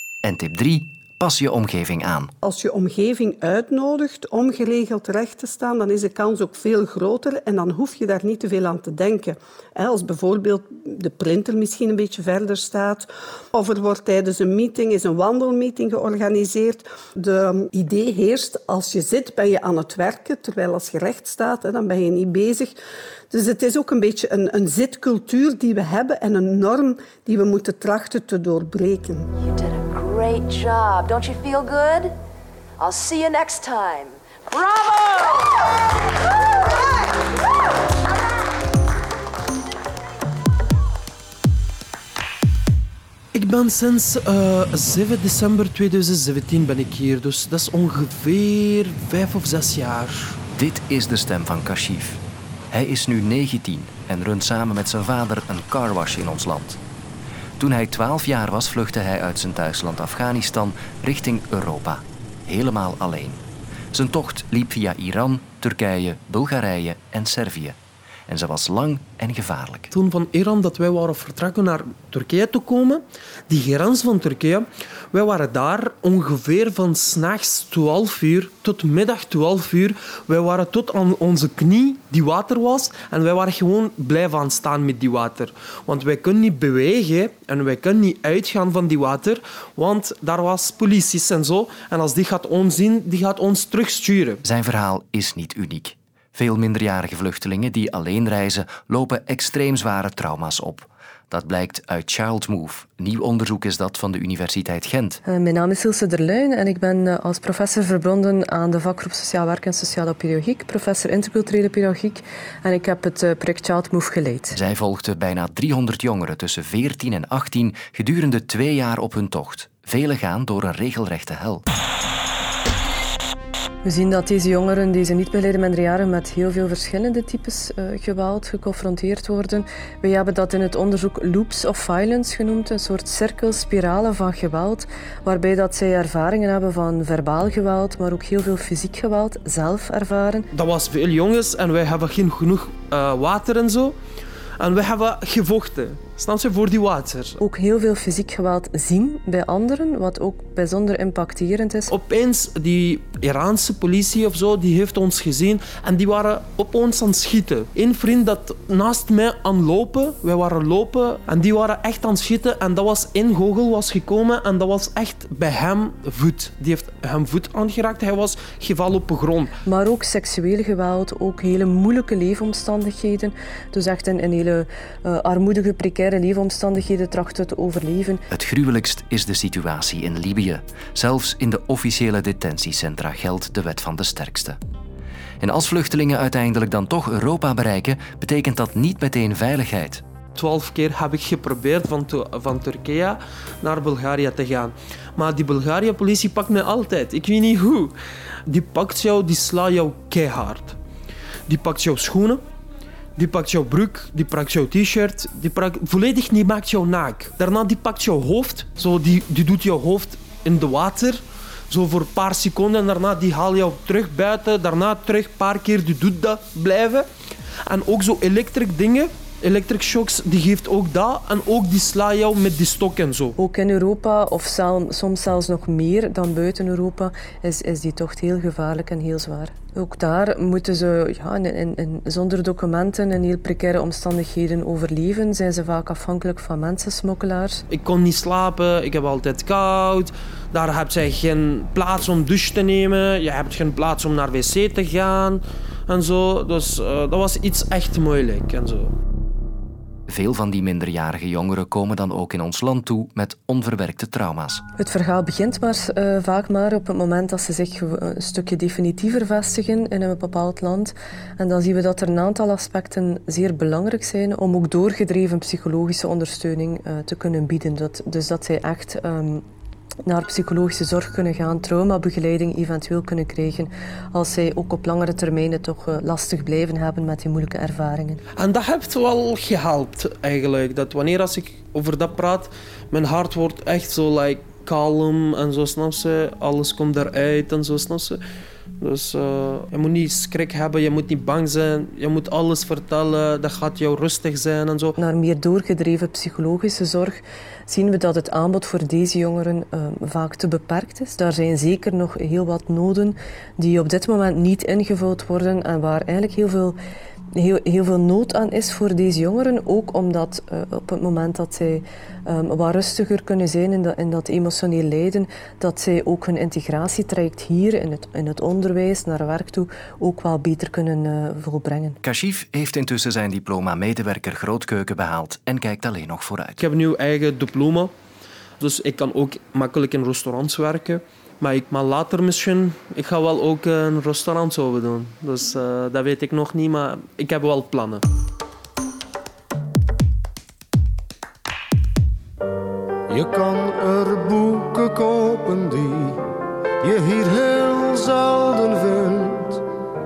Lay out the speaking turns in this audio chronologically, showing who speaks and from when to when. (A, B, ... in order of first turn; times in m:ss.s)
0:00.2-0:02.3 A
0:02.4-0:22.8 B
0:23.3-0:29.3 B
0:29.5-0:32.0 C
0:32.8-0:34.1 C
0:43.3-0:50.4 D
0:50.6-0:56.8 A
0:57.6-1:09.9 A
1:09.9-1:34.4 D
1:34.4-1:45.2 A
1:45.2-1:54.6 E
1:54.5-2:01.6 A
2:03.8-2:20.5 E
2:20.5-2:24.0 D
2:24.6-2:27.4 D
2:27.4-2:31.9 E
2:31.9-2:49.5 D
2:49.7-2:58.2 E
2:58.3-3:04.6 A
3:05.4-3:10.0 A
3:10.4-3:18.0 D
3:18.5-3:20.8 D
3:21.5-3:22.4 D
3:23.2-3:37.1 D
3:37.7-3:43.4 D
3:43.4-3:57.6 E
3:57.7-4:08.9 D
4:10.1-4:14.6 A
4:14.8-4:29.4 E
4:30.0-4:38.2 E
4:38.4-4:48.2 D
4:48.8-4:55.0 D
4:55.0-5:06.8 E
5:07.3-5:22.0 E
5:22.0-5:26.6 A
5:26.6-5:27.9 D
5:28.6-5:38.0 D
5:43.1-5:46.2 F
5:46.8-5:49.6 F